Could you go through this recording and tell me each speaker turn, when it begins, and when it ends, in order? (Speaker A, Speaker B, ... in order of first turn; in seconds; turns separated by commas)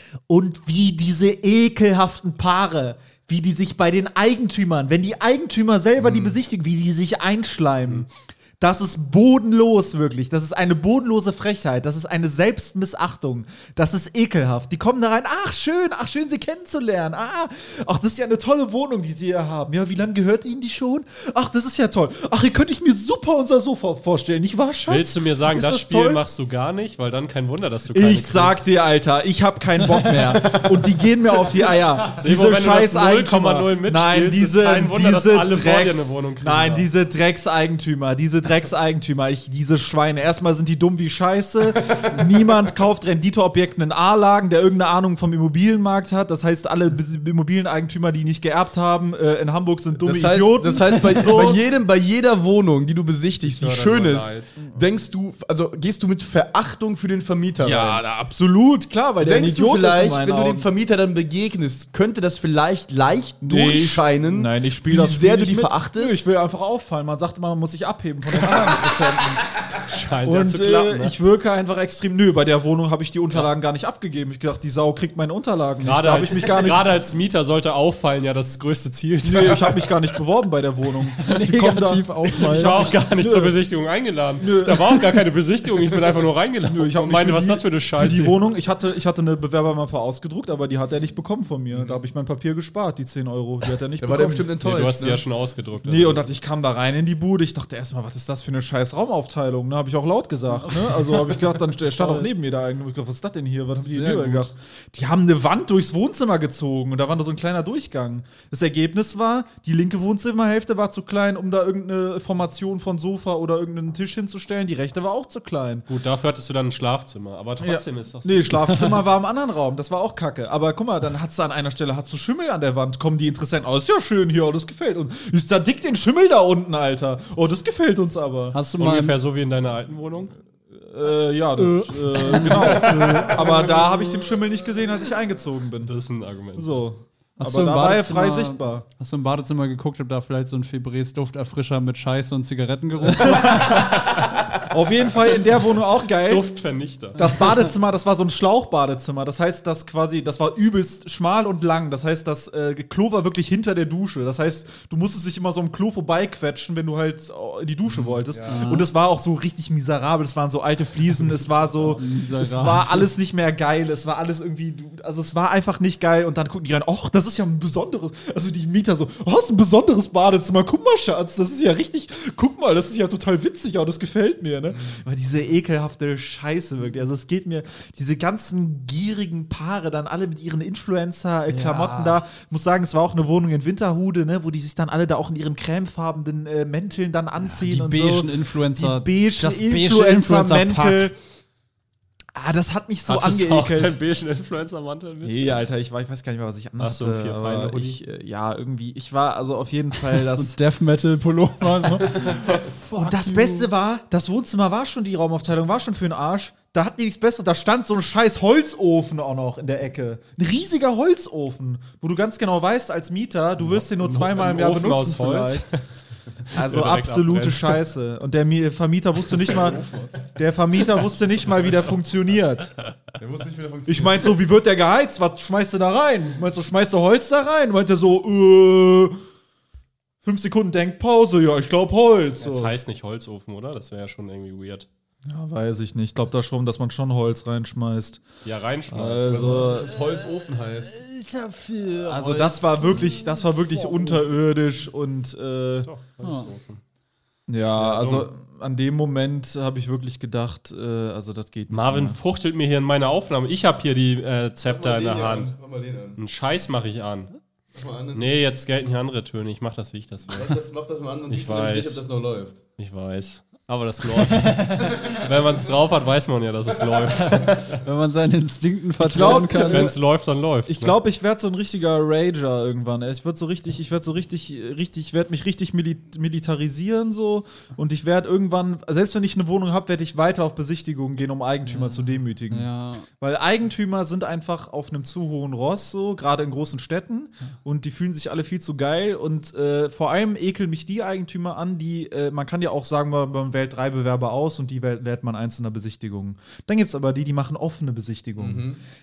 Speaker A: 0.3-8.1, Speaker B: 6.0-6.3, Speaker A: 8.6-26.2, Speaker B: 24.9-28.6, Speaker A: 27.9-51.6, Speaker B: 32.1-36.9, Speaker C: 50.0-58.0, Speaker A: 53.4-54.7, Speaker A: 57.6-60.6, Speaker C: 59.2-66.3, Speaker A: 63.4-69.5, Speaker B: 69.9-71.2, Speaker A: 70.2-76.9, Speaker B: 75.8-80.1, Speaker A: 79.2-83.6, Speaker D: 81.2-83.0, Speaker B: 82.2-88.5, Speaker A: 84.4-85.0, Speaker A: 86.7-94.5, Speaker C: 94.0-95.2, Speaker B: 94.6-96.3, Speaker A: 95.8-115.9, Speaker D: 100.6-101.4, Speaker D: 102.0-102.3, Speaker D: 103.8-104.5, Speaker B: 115.9-119.0, Speaker A: 117.6-128.6, Speaker D: 128.5-129.2, Speaker B: 128.8-130.3, Speaker A: 130.7-135.9, Speaker D: 131.6-134.0, Speaker C: 132.4-133.2, Speaker B: 135.8-136.8, Speaker A: 136.6-138.8, Speaker D: 137.4-144.0, Speaker A: 143.2-146.4, Speaker B: 146.2-147.2, Speaker A: 147.2-191.2, Speaker D: 147.2-147.4, Speaker C: 157.9-158.6, Speaker D: 158.5-158.9, Speaker D: 161.8-163.1, Speaker D: 181.5-182.2, Speaker D: 187.4-191.1, Speaker A: 192.3-194.0, Speaker B: 193.1-195.7, Speaker A: 195.2-200.6, Speaker B: 196.8-198.0, Speaker D: 200.3-203.7, Speaker A: 202.9-215.7, Speaker B: 213.7-215.8, Speaker B: 216.5-217.8, Speaker A: 216.5-219.8, Speaker C: 219.8-220.1, Speaker A: 220.3-222.7, Speaker B: 221.1-221.9, Speaker C: 223.2-224.3, Speaker A: 223.9-229.2, Speaker A: 230.2-232.7, Speaker B: 232.4-234.9, Speaker A: 235.2-238.2, Speaker B: 238.4-239.7, Speaker A: 238.9-239.9, Speaker C: 239.3-241.0, Speaker D: 239.7-244.3, Speaker A: 242.0-245.9, Speaker B: 245.8-246.8, Speaker D: 246.2-246.5, Speaker A: 247.5-252.2, Speaker B: 247.6-248.3, Speaker B: 251.7-255.6, Speaker C: 254.6-256.2, Speaker B: 256.1-257.3, Speaker C: 257.7-258.4, Speaker B: 258.1-260.6, Speaker C: 260.3-262.6, Speaker B: 261.3-262.0, Speaker B: 262.8-267.8, Speaker D: 264.4-265.0, Speaker D: 267.1-269.9, Speaker A: 269.0-270.0, Speaker B: 269.1-271.0, Speaker A: 270.7-298.7, Speaker D: 281.7-283.1, Speaker C: 298.4-298.8